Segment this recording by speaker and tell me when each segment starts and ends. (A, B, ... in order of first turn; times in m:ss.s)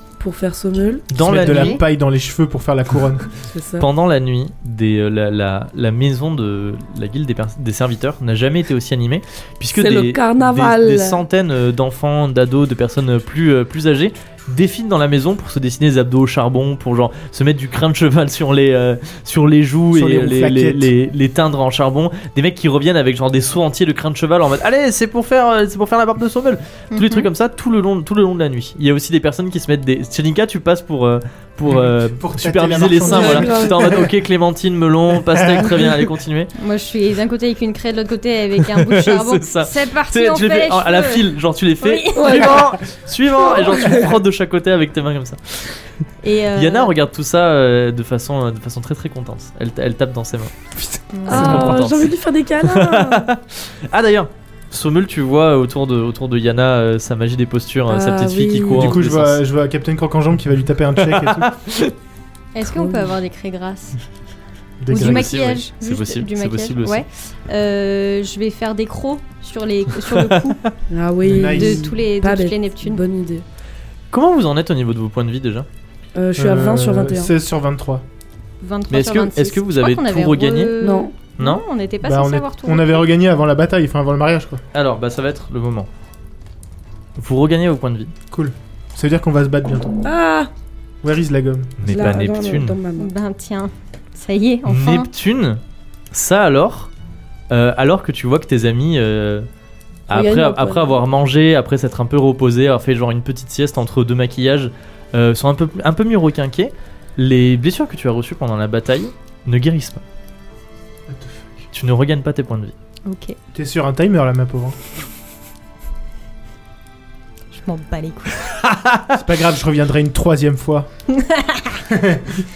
0:00.2-0:01.1 A
0:01.1-0:01.8 B
0:01.1-0:03.3 C
0:01.4-0:01.8 D
0:03.5-0:03.9 A
0:03.8-0:36.5 B
0:09.7-0:11.2 A
0:19.9-0:20.9 C
0:26.9-0:27.3 D
0:31.7-0:34.1 C
0:33.0-0:34.0 A
0:35.3-0:36.0 C
0:36.6-0:42.5 D
0:38.7-0:45.8 B
0:42.2-0:44.2 A
0:46.2-0:46.9 D
0:46.5-0:50.6 B
0:50.8-0:51.8 C
0:51.1-0:51.6 D
0:51.3-0:53.3 A
0:51.3-0:59.4 B
0:57.9-0:58.9 A
0:58.7-1:01.5 C
1:01.0-1:01.9 B
1:02.5-1:04.0 D
1:02.6-1:03.1 A
1:04.8-1:05.3 C
1:04.9-1:10.7 D
1:04.9-1:07.0 B
1:10.1-1:10.7 B
1:10.9-1:13.4 A
1:11.2-1:11.9 C
1:11.4-1:13.0 D
1:14.1-1:15.7 B
1:16.2-1:17.3 A
1:16.4-1:18.0 C
1:18.6-1:23.0 D
1:18.9-1:20.7 B
1:20.8-1:21.2 A
1:21.4-1:21.6 B
1:22.0-1:24.6 C
1:24.7-1:25.9 B
1:27.2-1:28.1 B
1:28.3-1:30.0 C
1:30.0-1:30.5 A
1:31.0-1:31.8 C
1:31.8-1:32.8 B
1:31.8-1:33.1 A
1:33.0-1:35.1 D
1:34.7-1:36.9 B
1:37.5-1:39.5 B
1:40.1-1:41.0 A
1:40.1-1:50.0 B
1:51.1-1:51.7 C
1:51.7-1:52.7 B
1:53.0-1:53.4 D
1:53.5-1:54.8 C
1:57.5-1:58.5 D
1:58.6-1:59.2 B
1:59.1-2:00.9 C
2:01.1-2:01.8 D
2:01.9-2:02.4 C